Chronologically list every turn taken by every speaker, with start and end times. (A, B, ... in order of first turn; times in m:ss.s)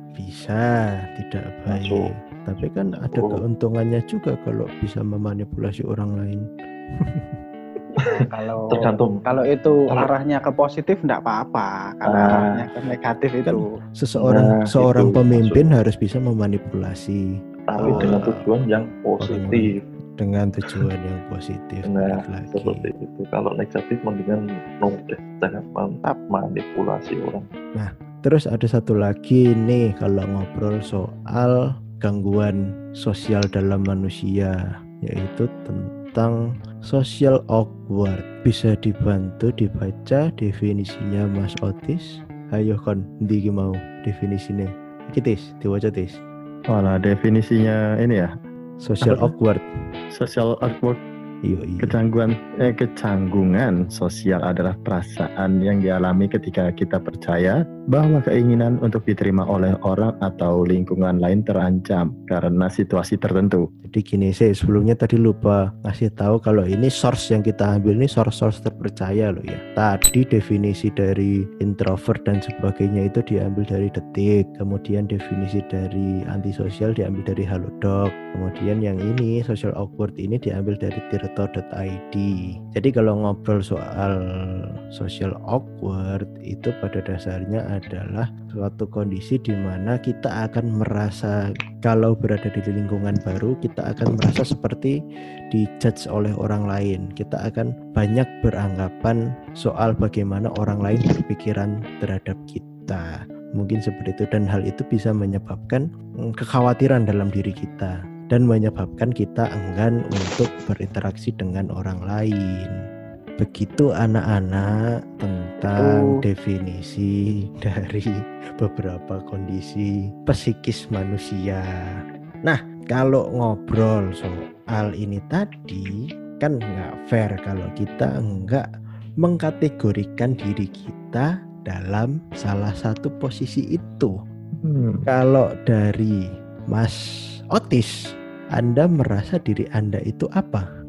0:00.2-0:06.4 A
0:01.7-0:02.1 B
0:02.9-0:03.4 B
0:07.0-0:07.3 A
0:08.0-0:13.6 C
0:08.7-0:09.2 B
0:12.1-0:12.6 B
0:13.4-0:17.2 A
0:14.2-0:15.7 B
0:17.7-0:19.8 B
0:17.8-0:18.4 A
0:17.8-0:18.1 C
0:19.2-0:19.6 A
0:20.2-0:22.8 A
0:21.8-0:27.5 B
0:27.8-0:34.5 A
0:35.0-0:46.2 A
0:46.7-0:48.3 D
0:48.8-0:49.6 A
0:49.0-0:49.3 D
0:50.1-0:51.0 D
0:51.4-0:51.9 A
0:51.8-1:03.6 D
1:03.9-1:24.2 A
1:24.9-1:31.3 A
1:31.8-1:34.9 A
1:35.5-1:52.7 A
1:53.4-2:08.6 A
1:55.7-1:56.2 C
2:09.2-2:14.1 A
2:14.6-2:15.0 D
2:15.1-2:16.2 A
2:16.7-2:17.0 A
2:17.5-2:17.9 A
2:18.6-2:20.6 A